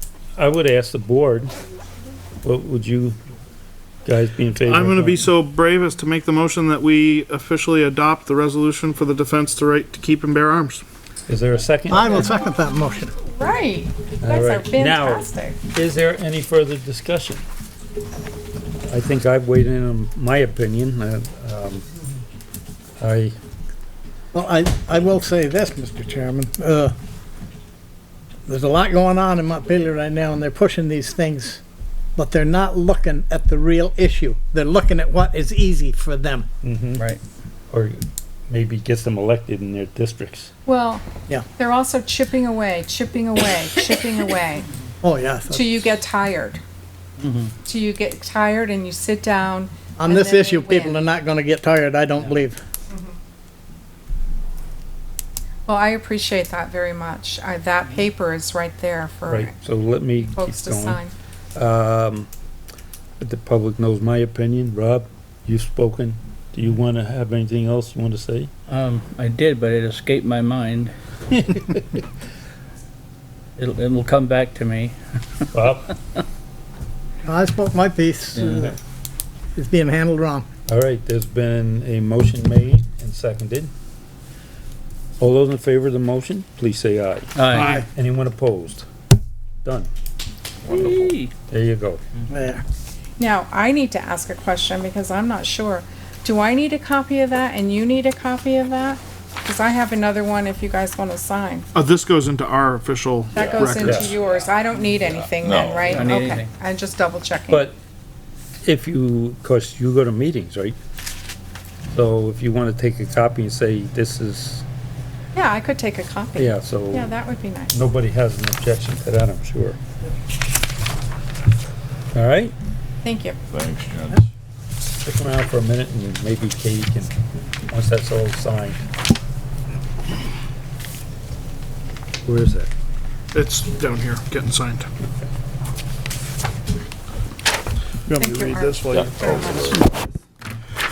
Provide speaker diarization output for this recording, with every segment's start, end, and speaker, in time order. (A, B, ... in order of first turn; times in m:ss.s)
0:00.4-0:01.5 A
0:02.4-0:03.2 A
0:04.1-0:05.2 A
0:04.6-0:10.8 B
0:11.3-0:12.4 A
0:11.9-0:13.2 C
0:13.2-0:15.6 D
0:14.2-0:17.4 A
0:18.9-0:21.8 A
0:23.0-0:23.4 A
0:24.3-0:26.9 C
0:28.5-0:31.6 C
0:32.2-0:36.5 C
0:36.6-0:37.0 A
0:37.7-0:40.5 A
0:40.7-0:41.1 D
0:41.6-0:44.7 D
0:45.0-0:45.9 C
0:45.5-0:46.6 D
0:47.2-0:47.5 E
0:47.6-0:51.0 D
0:50.0-0:52.6 C
0:55.7-0:59.5 D
0:59.3-1:01.0 A
1:00.3-1:01.1 D
1:01.6-1:02.3 A
1:03.2-1:08.5 A
1:08.7-1:10.9 E
1:11.3-1:11.8 A
1:13.6-1:15.5 E
1:15.5-1:15.9 A
1:17.2-1:18.8 C
1:18.4-1:18.7 E
1:19.6-1:20.5 C
1:20.7-1:23.7 A
1:25.2-1:28.9 A
1:27.4-1:27.7 E
1:30.7-1:31.3 E
1:31.5-1:32.0 A
1:32.3-1:32.6 C
1:33.2-1:41.7 D
1:41.8-1:44.4 B
1:43.3-1:47.7 D
1:43.4-1:44.1 F
1:43.8-1:44.2 A
1:45.0-1:46.1 F
1:45.9-1:46.5 E
1:47.5-1:47.8 A
1:48.6-1:50.8 A
1:51.9-1:54.6 A
1:55.4-1:57.8 D
1:56.4-1:57.2 A
1:57.7-1:59.8 A
2:02.1-2:02.5 A
2:03.0-2:03.4 D
2:03.5-2:04.3 F
2:05.0-2:07.1 A
2:07.7-2:08.8 A
2:12.2-2:12.7 A
2:13.3-2:14.9 B
2:18.1-2:19.4 B
2:18.2-2:19.8 D
2:19.0-2:19.9 F